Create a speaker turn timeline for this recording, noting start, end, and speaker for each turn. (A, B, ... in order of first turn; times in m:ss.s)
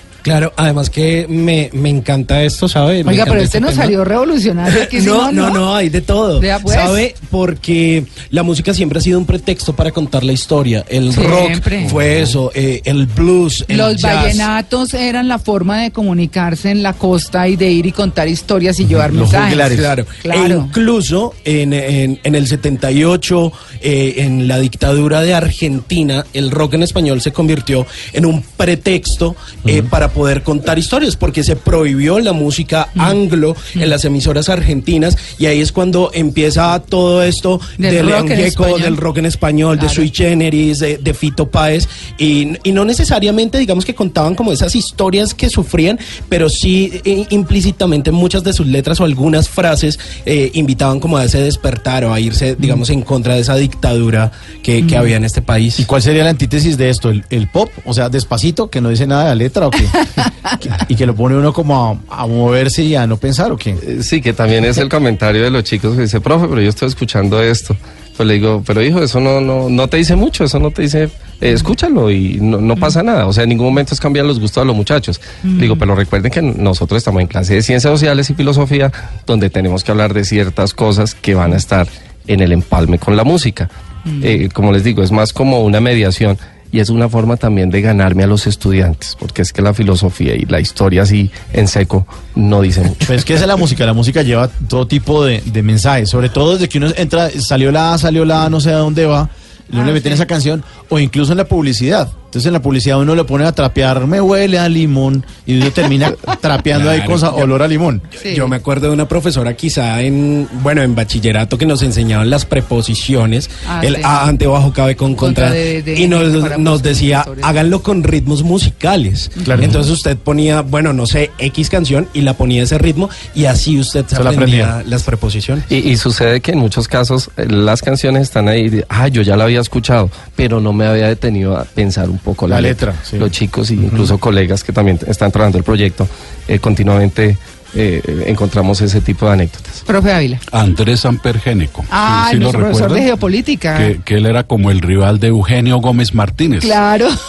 0:00.2-0:04.0 A
0:03.0-0:05.6 B
0:04.6-0:14.5 A
0:06.4-0:07.0 B
0:11.1-0:11.9 B
0:13.7-0:20.7 B
0:18.9-0:20.0 C
0:19.6-0:55.9 A
0:37.8-0:39.0 B
0:39.8-0:40.1 B
0:54.8-0:55.1 B
0:55.8-1:03.8 C
1:03.8-1:23.7 D
1:15.4-1:15.8 B
1:24.1-1:24.4 B
1:24.2-1:33.1 D
1:33.1-1:48.1 C
1:39.8-1:40.2 B
1:46.7-1:47.5 A
1:48.2-1:48.5 B
1:48.2-2:05.7 A
1:53.6-1:54.2 B
1:55.2-1:57.5 B
1:59.5-1:59.8 C
2:04.1-2:04.7 C
2:05.7-2:19.8 D
2:12.5-2:14.1 C
2:19.9-2:20.4 B
2:20.5-2:23.1 E
2:21.9-2:23.9 B
2:23.8-2:26.8 E
2:26.6-2:27.1 B